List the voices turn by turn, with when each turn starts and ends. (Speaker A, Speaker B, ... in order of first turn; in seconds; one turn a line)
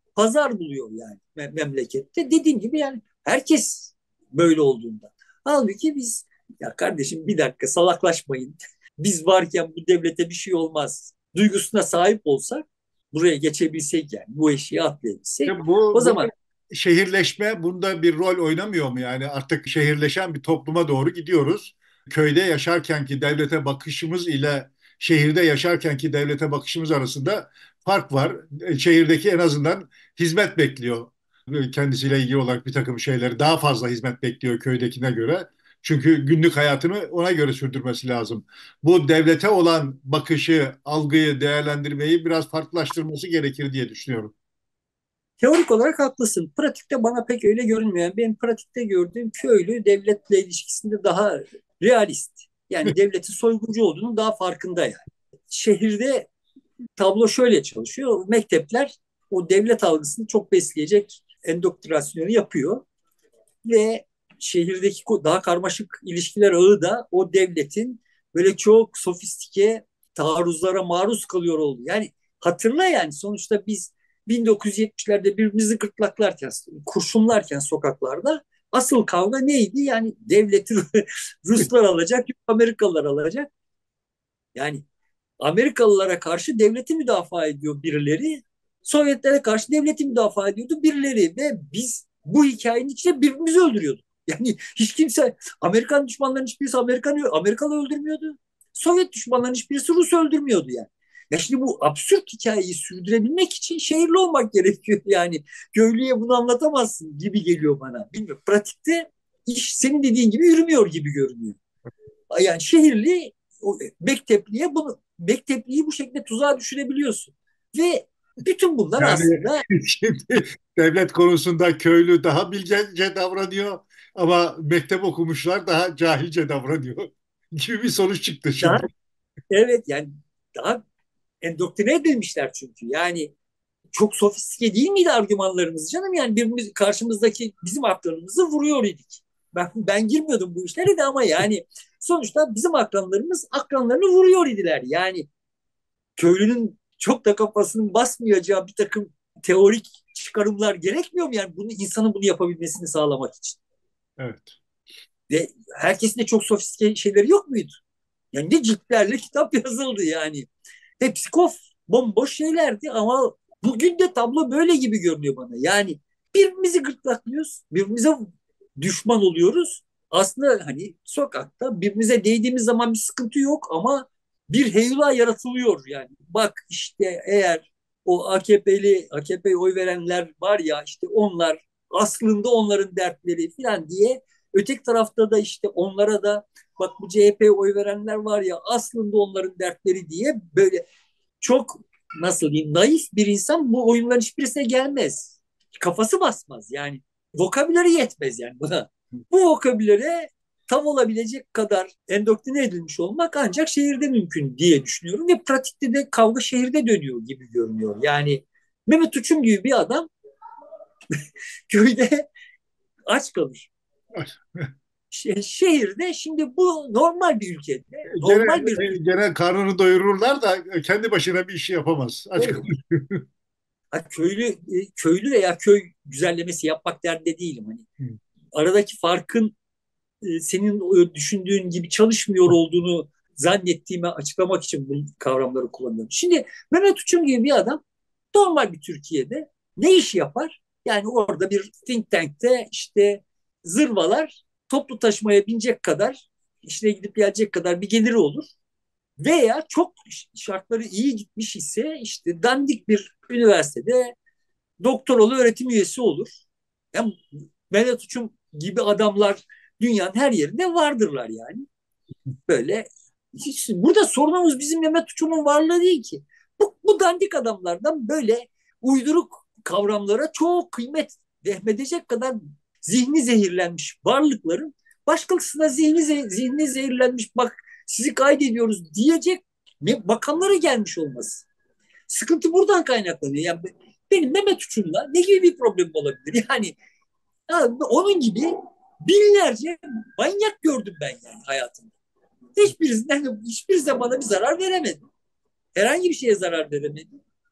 Speaker A: 0.2-16.3
Speaker B: 15.4-44.3
Speaker A: 45.4-56.3
Speaker A: 57.0-62.9
Speaker A: 63.6-83.5
Speaker A: 84.5-84.8
Speaker A: 85.4-111.6
Speaker A: 112.3-119.7
Speaker B: 119.0-128.8
Speaker A: 128.6-128.9
Speaker A: 129.5-130.8
Speaker A: 131.4-133.3
Speaker A: 133.9-145.3
Speaker A: 146.2-153.6
Speaker B: 154.2-154.6
Speaker A: 155.3-157.8
Speaker A: 158.3-160.5
Speaker A: 161.0-190.8
Speaker A: 191.4-210.1
Speaker A: 211.7-212.3
Speaker A: 213.1-213.7
Speaker B: 214.2-214.7
Speaker A: 215.1-219.0
Speaker B: 218.1-223.2
Speaker A: 223.9-227.9
Speaker A: 228.5-229.6
Speaker A: 230.2-237.8
Speaker A: 238.3-248.5
Speaker A: 249.2-254.2
Speaker A: 254.8-256.4
Speaker A: 257.7-261.7
Speaker A: 262.5-281.5
Speaker A: 282.1-286.8
Speaker A: 287.5-288.5
Speaker A: 289.0-291.9
Speaker A: 292.6-295.1
Speaker A: 295.8-297.2